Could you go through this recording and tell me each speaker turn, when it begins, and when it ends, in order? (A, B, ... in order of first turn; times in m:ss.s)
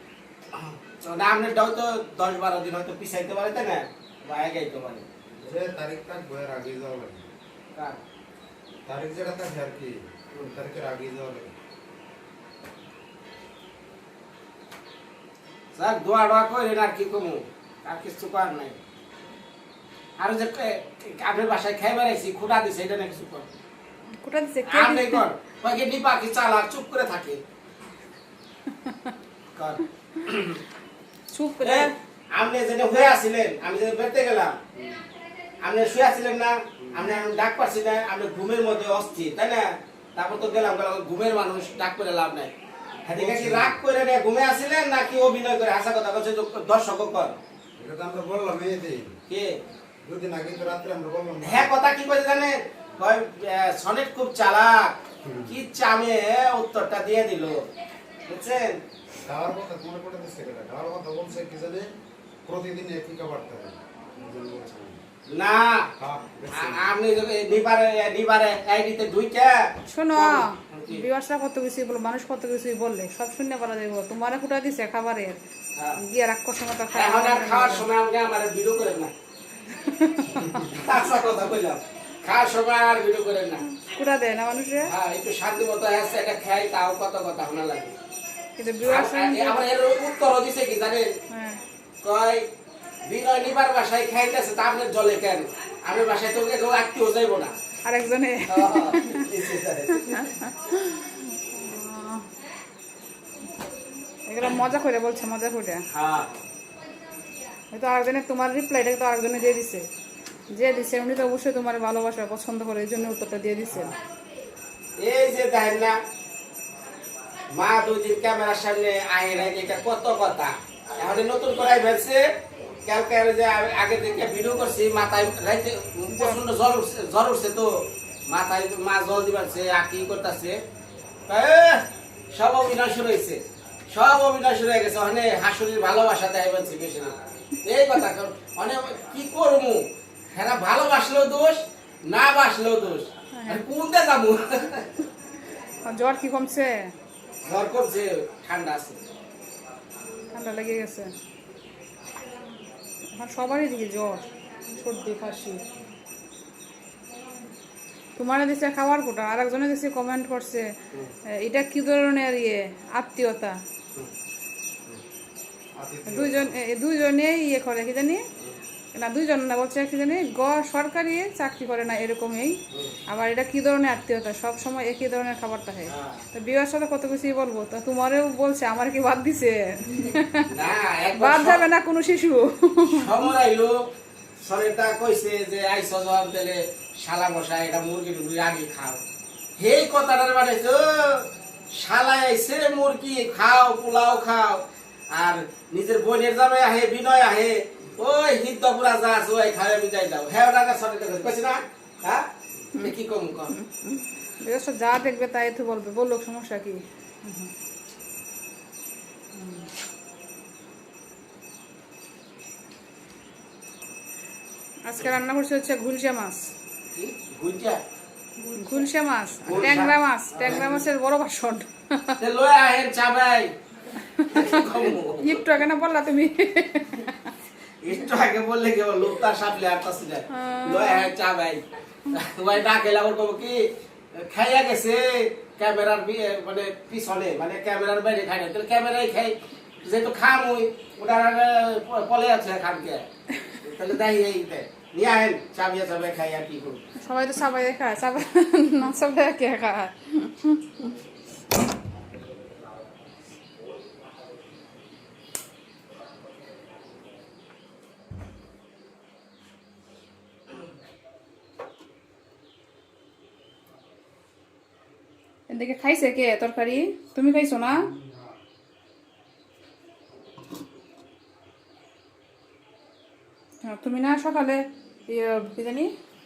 0:00.5-0:05.3 A
0:05.4-0:07.3 B
0:08.8-0:11.5 B
0:15.8-0:18.8 A
0:20.2-0:23.4 A
0:24.2-0:25.2 C
0:24.7-0:27.4 A
0:29.6-0:30.6 A
0:31.3-0:31.9 C
0:31.6-0:34.6 A
0:34.8-0:35.0 B
0:35.6-0:42.5 A
0:43.0-0:43.8 B
0:43.0-0:47.4 A
0:47.8-0:49.1 B
0:49.3-0:49.6 A
0:50.0-0:51.7 B
0:51.4-0:57.6 A
0:55.2-0:55.5 B
0:58.2-0:58.8 A
0:59.2-1:01.9 B
1:02.4-1:05.0 B
1:05.3-1:05.9 A
1:06.0-1:06.9 B
1:06.5-1:11.0 A
1:09.9-1:15.4 C
1:16.0-1:17.8 C
1:16.9-1:19.1 A
1:19.8-1:20.6 C
1:20.4-1:23.6 A
1:23.6-1:24.9 C
1:24.8-1:27.9 A
1:28.6-1:29.6 C
1:28.8-1:31.1 A
1:31.3-1:31.6 C
1:32.0-1:32.4 A
1:33.0-1:37.5 A
1:37.8-1:39.2 C
1:38.5-1:40.2 A
1:40.0-1:42.2 C
1:44.2-1:45.8 C
1:45.9-1:46.4 A
1:47.7-1:49.9 C
1:50.5-1:53.9 C
1:55.0-1:56.0 A
1:57.5-2:02.2 A
2:02.8-2:07.7 A
2:06.1-2:06.4 C
2:08.3-2:10.6 A
2:11.3-2:24.9 A
2:23.3-2:23.6 C
2:25.8-2:26.9 C
2:27.4-2:29.0 A
2:30.3-2:31.1 C
2:33.1-2:35.6 C
2:38.2-2:40.7 C
2:41.4-2:43.6 C
2:45.7-2:46.5 B
2:46.0-2:48.2 C
2:48.9-3:00.5 C
2:52.7-2:53.0 A
2:55.9-2:56.2 A
3:00.5-3:01.6 A
3:01.1-3:03.3 C
3:02.9-3:03.8 A
3:04.4-3:09.0 A
3:09.6-3:14.6 A
3:15.1-3:22.2 A
3:22.8-3:23.5 A
3:23.5-3:27.5 C
3:29.3-3:29.7 C
3:34.8-3:36.5 C
3:36.9-3:37.8 A
3:38.4-3:42.2 C
3:39.4-3:40.8 A
3:42.2-3:43.5 A
3:44.0-3:47.2 C
3:44.3-3:45.4 A
3:47.8-3:53.7 A
3:50.3-3:51.1 C
3:54.2-4:03.0 A
4:03.6-4:06.8 A
4:07.0-4:10.9 C
4:25.5-4:27.9 C
4:27.7-4:28.3 B
4:33.6-4:35.9 C